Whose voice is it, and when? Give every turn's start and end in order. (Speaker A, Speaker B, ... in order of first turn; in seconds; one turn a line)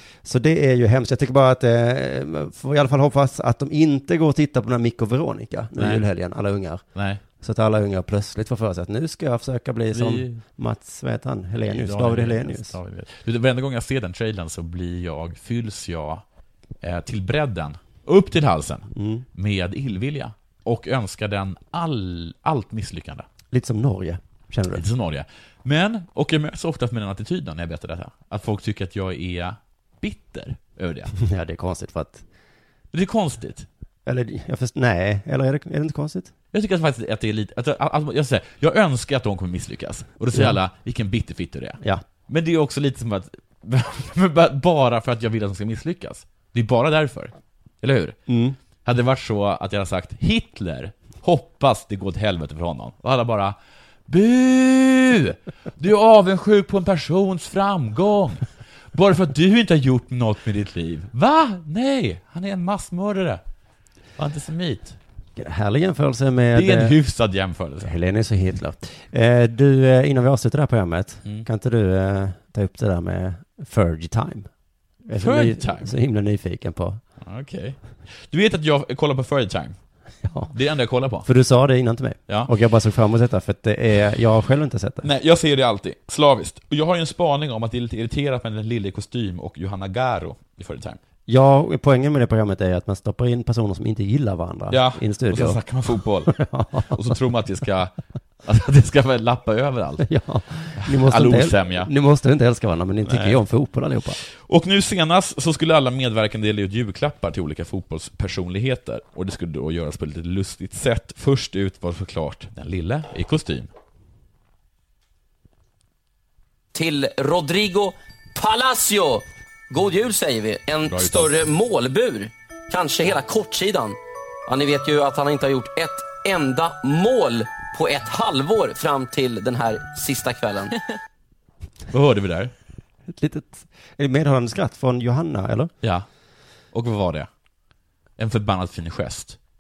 Speaker A: 0.2-6.8
Speaker B: 5.8-6.1
Speaker B: 6.9-7.2
Speaker A: 7.4-12.8
Speaker B: 9.9-10.4
Speaker B: 11.6-16.2
Speaker B: 16.8-23.3
Speaker A: 18.9-19.2
Speaker A: 23.5-24.8
Speaker B: 24.7-31.1
Speaker A: 31.2-32.2
Speaker B: 32.9-33.7
Speaker A: 34.1-36.3
Speaker B: 36.5-48.2
Speaker A: 48.3-48.6
Speaker B: 48.8-53.6
Speaker B: 54.1-63.4
Speaker B: 64.2-65.0
Speaker A: 65.4-67.0
Speaker B: 66.5-67.9
Speaker A: 67.8-74.5
Speaker A: 75.0-77.0
Speaker B: 75.2-75.9
Speaker B: 77.2-79.8
Speaker A: 80.2-80.5
Speaker B: 80.5-81.3
Speaker A: 81.2-85.1
Speaker B: 85.0-91.0
Speaker A: 91.3-95.6
Speaker B: 94.7-97.9
Speaker A: 96.3-96.9
Speaker B: 98.4-100.1
Speaker A: 100.0-104.2
Speaker B: 100.8-101.9
Speaker B: 103.1-103.4
Speaker B: 104.4-113.7
Speaker C: 116.7-130.7
Speaker B: 120.9-121.5
Speaker B: 131.9-132.5
Speaker A: 133.1-135.7
Speaker B: 136.7-137.3
Speaker B: 138.2-139.4